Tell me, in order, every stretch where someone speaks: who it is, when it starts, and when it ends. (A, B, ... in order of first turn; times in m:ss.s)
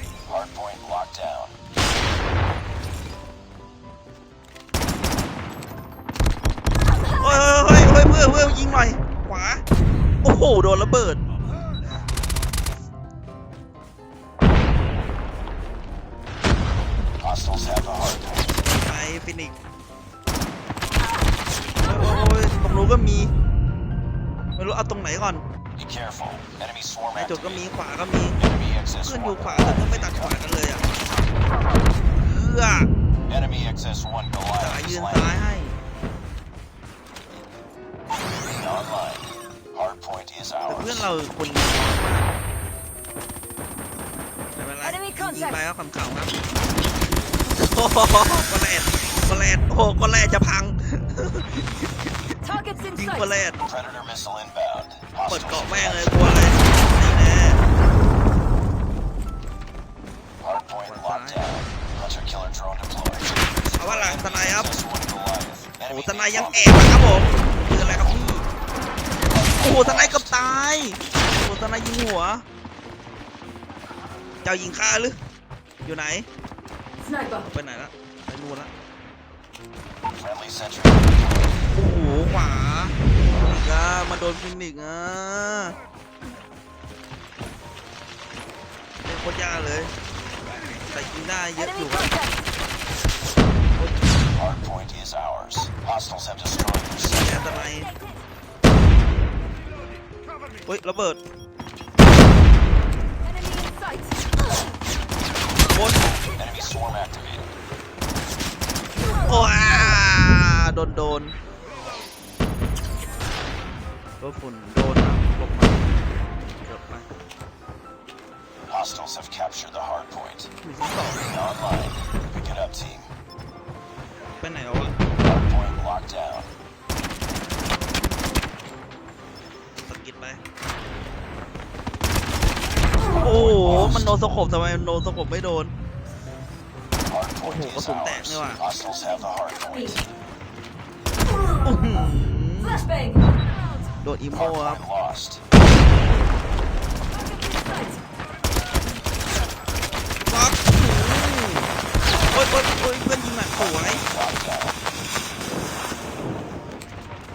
0:00.2-0:01.6 A
0:07.1-0:09.6 B
0:10.2-0:11.2 B
0:17.2-0:18.6 A
0:18.8-0:19.5 B
0:21.8-0:23.3 B
0:24.6-0:25.4 B
0:25.8-0:27.7 A
0:27.1-0:28.4 B
0:28.4-0:30.4 A
0:29.0-0:30.9 B
0:32.2-0:32.9 B
0:33.3-0:35.3 A
0:34.6-0:35.7 B
0:38.4-0:41.1 A
0:40.7-0:42.3 B
0:44.6-0:46.3 B
0:44.8-0:45.5 C
0:47.5-0:52.1 B
0:52.4-0:53.2 C
0:53.0-0:53.6 B
0:53.6-0:56.7 A
0:55.3-0:57.6 B
1:00.4-1:07.2 A
1:00.9-1:01.4 B
1:03.8-1:04.7 B
1:05.9-1:08.4 B
1:07.8-1:08.3 A
1:09.2-1:10.4 A
1:09.6-1:12.4 B
1:14.4-1:15.2 B
1:15.8-1:16.3 B
1:17.0-1:17.5 C
1:17.5-1:18.7 B
1:20.1-1:21.7 A
1:21.7-1:25.7 B
1:29.0-1:29.9 B
1:30.9-1:32.3 B
1:34.3-1:37.8 A
1:37.0-1:37.9 B
1:40.6-1:41.2 B
1:43.3-1:44.1 C
1:45.7-1:46.1 B
1:46.2-1:47.5 A
1:49.2-1:51.3 B
1:54.2-1:56.0 B
1:56.6-1:57.1 B
1:58.7-2:00.5 A
2:00.6-2:01.3 B
2:01.2-2:03.1 A
2:04.4-2:05.0 B
2:05.2-2:06.5 A
2:09.8-2:10.4 B
2:13.1-2:15.7 B
2:13.2-2:14.1 A
2:17.0-2:20.1 A
2:17.4-2:18.6 B
2:21.6-2:22.9 B
2:24.0-2:24.8 B
2:24.3-2:25.4 A
2:27.2-2:27.9 C
2:30.2-2:31.7 B
2:32.3-2:34.0 B
2:33.5-2:34.8 A